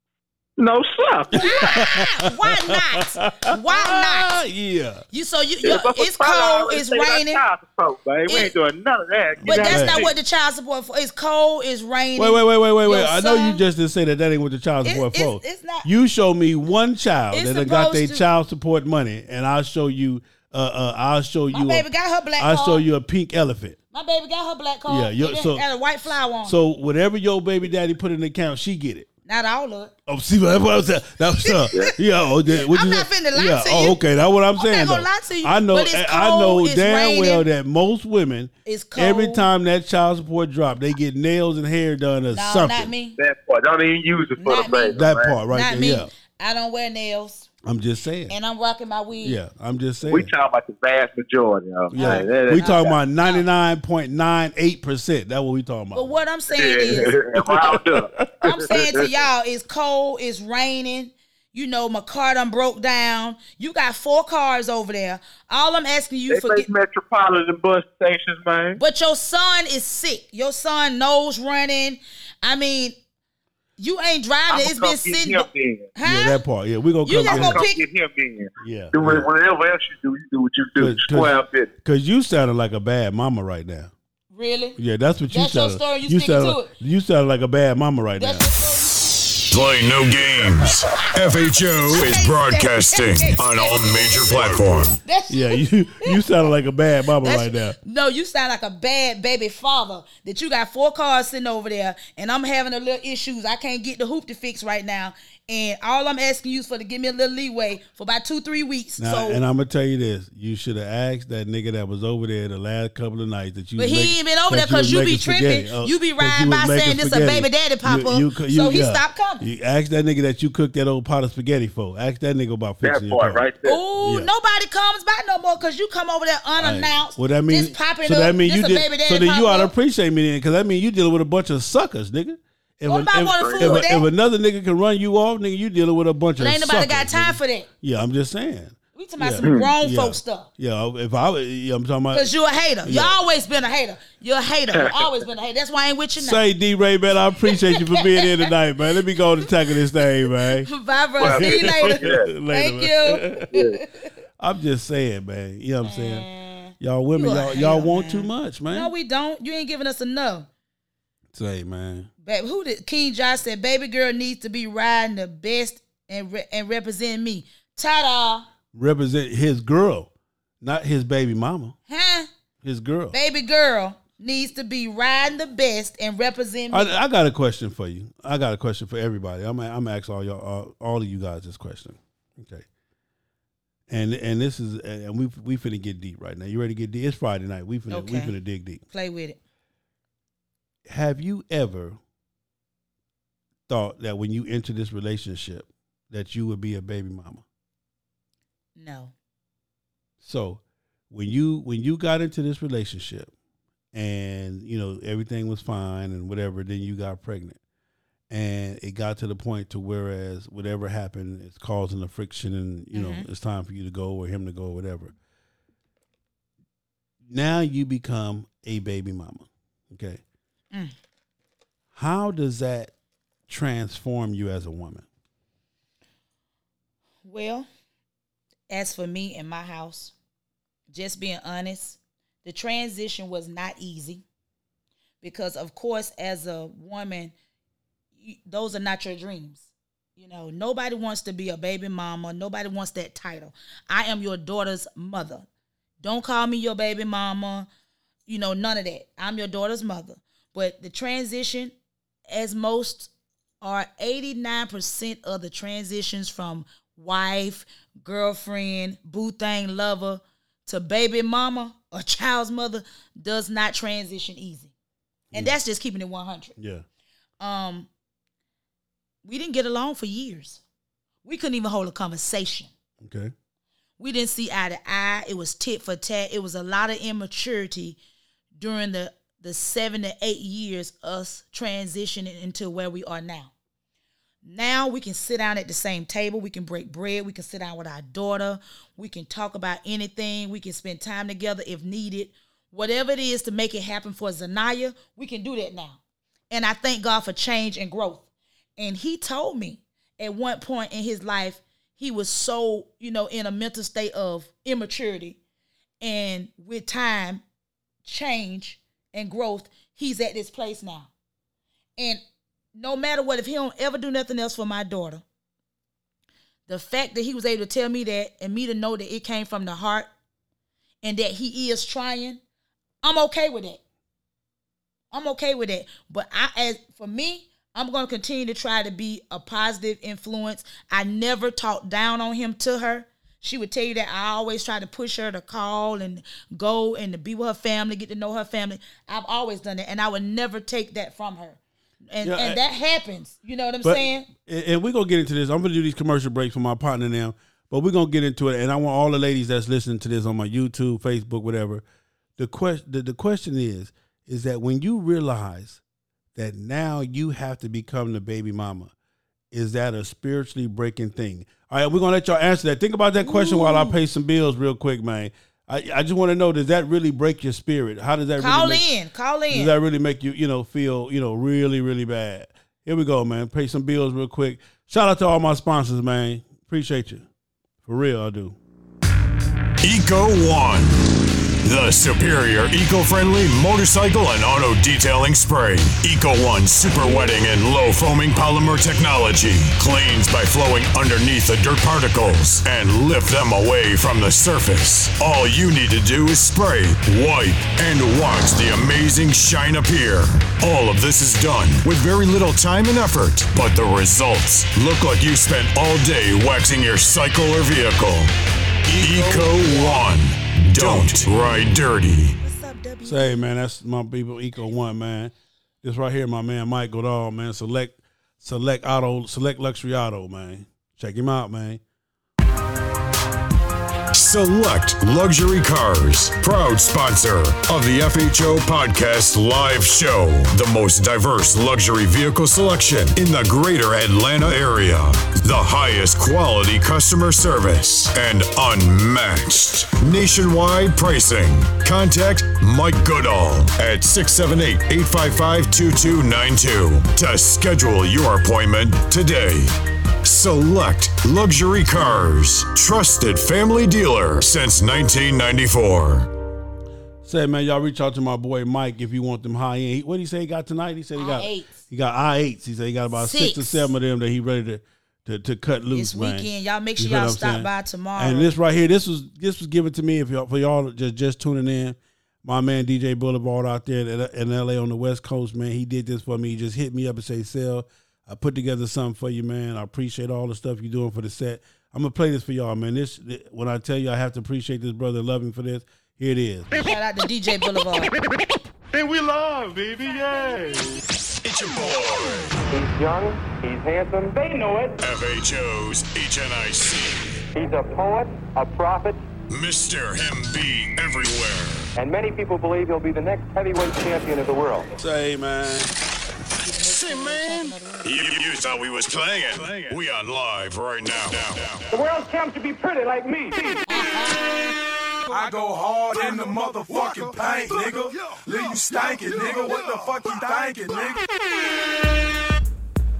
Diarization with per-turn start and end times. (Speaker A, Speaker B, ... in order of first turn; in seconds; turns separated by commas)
Speaker A: 0.6-1.8, Speaker B: 1.3-4.3, Speaker C: 1.3-5.0, Speaker B: 5.1-7.4, Speaker A: 5.6-10.1, Speaker B: 8.3-8.5, Speaker C: 9.4-10.1, Speaker B: 9.4-13.6, Speaker C: 12.2-23.8, Speaker B: 14.8-15.9, Speaker B: 17.3-18.2, Speaker B: 21.5-22.8, Speaker B: 23.9-26.6, Speaker C: 24.9-25.6, Speaker C: 26.4-29.1, Speaker B: 29.3-29.9, Speaker C: 30.1-42.9, Speaker B: 31.4-31.9, Speaker B: 32.5-34.0, Speaker B: 34.5-37.5, Speaker B: 38.6-39.5, Speaker B: 42.3-43.2, Speaker A: 43.2-45.4, Speaker B: 44.4-47.5, Speaker C: 44.9-46.1, Speaker C: 47.6-48.3, Speaker B: 48.3-49.4, Speaker C: 49.2-50.3, Speaker A: 50.0-53.0, Speaker C: 51.9-56.2, Speaker B: 51.9-53.4, Speaker B: 55.9-57.2, Speaker A: 56.5-59.2, Speaker C: 57.1-58.7, Speaker B: 58.4-66.7, Speaker A: 66.3-68.8, Speaker B: 68.8-73.0, Speaker B: 73.8-76.4, Speaker A: 74.5-75.9, Speaker C: 76.0-77.6, Speaker B: 77.0-77.8, Speaker A: 77.2-81.7, Speaker C: 78.6-79.3, Speaker C: 80.8-83.9, Speaker B: 84.3-84.8, Speaker C: 84.8-88.5, Speaker B: 85.3-86.7, Speaker B: 88.2-89.3, Speaker D: 89.5-95.0, Speaker B: 90.9-96.2, Speaker C: 94.4-94.8, Speaker C: 95.3-97.8, Speaker B: 97.2-109.4, Speaker C: 109.0-123.4, Speaker B: 113.8-119.5, Speaker A: 122.8-123.8, Speaker B: 123.6-129.7, Speaker C: 124.0-124.3, Speaker C: 126.6-142.3, Speaker B: 132.8-134.1, Speaker A: 133.3-133.9, Speaker B: 136.4-137.7, Speaker B: 138.9-140.5, Speaker A: 139.4-139.7, Speaker B: 142.1-146.4, Speaker C: 142.8-143.1, Speaker A: 144.7-145.1, Speaker C: 146.2-153.5, Speaker B: 147.5-148.3, Speaker B: 150.7-154.1, Speaker A: 151.2-152.3, Speaker A: 153.5-153.8, Speaker C: 154.4-156.3, Speaker B: 155.8-160.5, Speaker C: 156.8-158.9, Speaker C: 161.3-162.1, Speaker B: 162.2-168.4, Speaker C: 168.7-170.1, Speaker C: 170.6-171.8, Speaker B: 171.9-172.3, Speaker C: 172.6-173.1, Speaker B: 173.1-176.9, Speaker C: 176.7-182.7, Speaker C: 183.9-188.8, Speaker B: 187.9-188.3, Speaker B: 188.9-189.4, Speaker C: 190.8-192.0, Speaker C: 193.7-197.4, Speaker B: 198.8-199.1, Speaker C: 200.2-203.3, Speaker C: 203.9-207.6, Speaker C: 208.3-215.1, Speaker B: 212.9-213.3, Speaker C: 217.3-220.2, Speaker C: 221.9-222.9, Speaker C: 223.5-225.0, Speaker B: 227.2-227.7, Speaker B: 228.7-230.1, Speaker B: 230.9-234.2, Speaker B: 235.2-237.3, Speaker B: 238.2-245.4, Speaker B: 246.0-247.7, Speaker B: 248.3-251.7, Speaker B: 252.3-253.1, Speaker B: 253.6-264.7, Speaker B: 265.3-266.5, Speaker C: 266.6-266.8, Speaker B: 267.4-267.9, Speaker B: 269.2-270.6, Speaker B: 271.2-272.7, Speaker C: 273.0-273.3, Speaker B: 274.0-278.0, Speaker B: 278.6-283.5, Speaker B: 284.4-296.0, Speaker B: 296.5-298.2, Speaker B: 298.8-305.4, Speaker B: 306.0-307.4, Speaker B: 308.0-311.1, Speaker B: 312.7-315.2, Speaker B: 316.7-320.1, Speaker B: 321.0-322.4, Speaker B: 323.0-323.8, Speaker B: 325.1-344.3, Speaker C: 342.2-342.6, Speaker C: 343.8-351.8, Speaker C: 352.4-355.8, Speaker C: 356.4-358.9, Speaker C: 359.5-368.9, Speaker B: 363.2-364.0, Speaker B: 368.4-369.7, Speaker C: 369.5-377.2, Speaker C: 377.9-378.6, Speaker D: 379.8-381.1, Speaker D: 381.6-408.3, Speaker D: 408.9-412.4, Speaker C: 410.8-411.2, Speaker B: 412.4-413.5, Speaker C: 413.0-421.8, Speaker D: 424.1-456.3, Speaker C: 457.2-486.9, Speaker B: 461.1-461.7, Speaker B: 463.1-463.9, Speaker B: 465.9-468.5, Speaker B: 486.7-488.1, Speaker D: 489.0-490.5, Speaker D: 491.4-492.6, Speaker E: 492.7-495.0, Speaker D: 495.0-497.4, Speaker E: 497.5-499.2, Speaker D: 499.5-501.9, Speaker E: 501.9-504.9, Speaker C: 504.9-505.9, Speaker B: 506.6-508.1, Speaker D: 506.8-511.9, Speaker E: 511.9-513.8, Speaker B: 513.9-514.7, Speaker F: 515.3-521.2